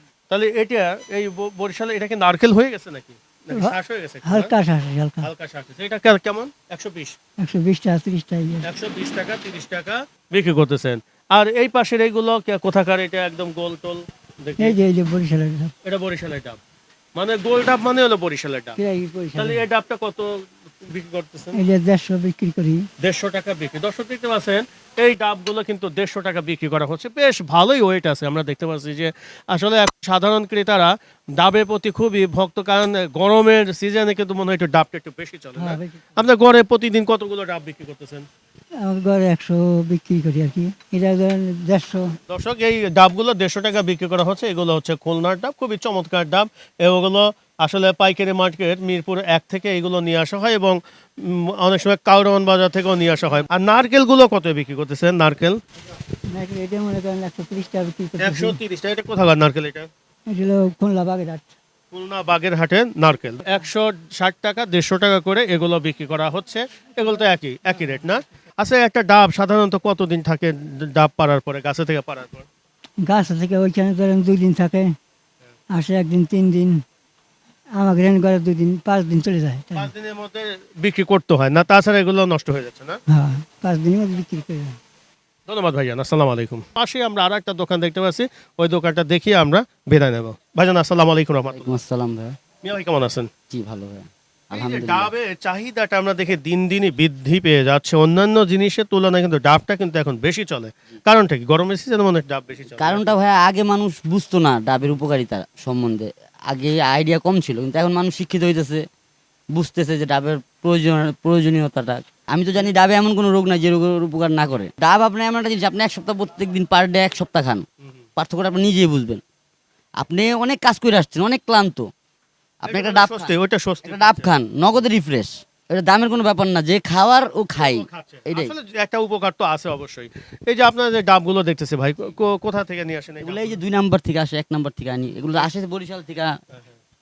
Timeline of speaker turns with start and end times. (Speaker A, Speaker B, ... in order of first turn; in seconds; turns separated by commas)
Speaker A: 0.3-4.5, Speaker B: 3.5-5.3, Speaker A: 5.2-7.1, Speaker B: 7.4-8.7, Speaker A: 8.6-14.8, Speaker B: 14.6-15.7, Speaker A: 15.8-16.6, Speaker A: 17.1-18.8, Speaker B: 18.8-19.6, Speaker A: 19.4-20.3, Speaker A: 20.8-21.6, Speaker B: 21.5-22.9, Speaker A: 23.0-38.2, Speaker B: 35.6-36.0, Speaker B: 38.8-42.2, Speaker A: 42.3-55.6, Speaker B: 56.3-58.6, Speaker A: 58.2-59.9, Speaker B: 60.3-61.5, Speaker A: 61.9-72.5, Speaker B: 73.0-75.0, Speaker B: 75.7-76.8, Speaker B: 77.8-79.9, Speaker A: 79.7-83.0, Speaker B: 83.1-84.8, Speaker A: 85.5-91.8, Speaker C: 91.5-92.3, Speaker A: 92.6-93.3, Speaker C: 93.5-95.1, Speaker A: 94.5-103.1, Speaker C: 102.8-108.8, Speaker C: 109.5-117.6, Speaker C: 118.2-119.2, Speaker C: 120.0-121.9, Speaker C: 122.6-128.5, Speaker A: 122.7-124.3, Speaker A: 127.5-133.6, Speaker C: 133.2-136.3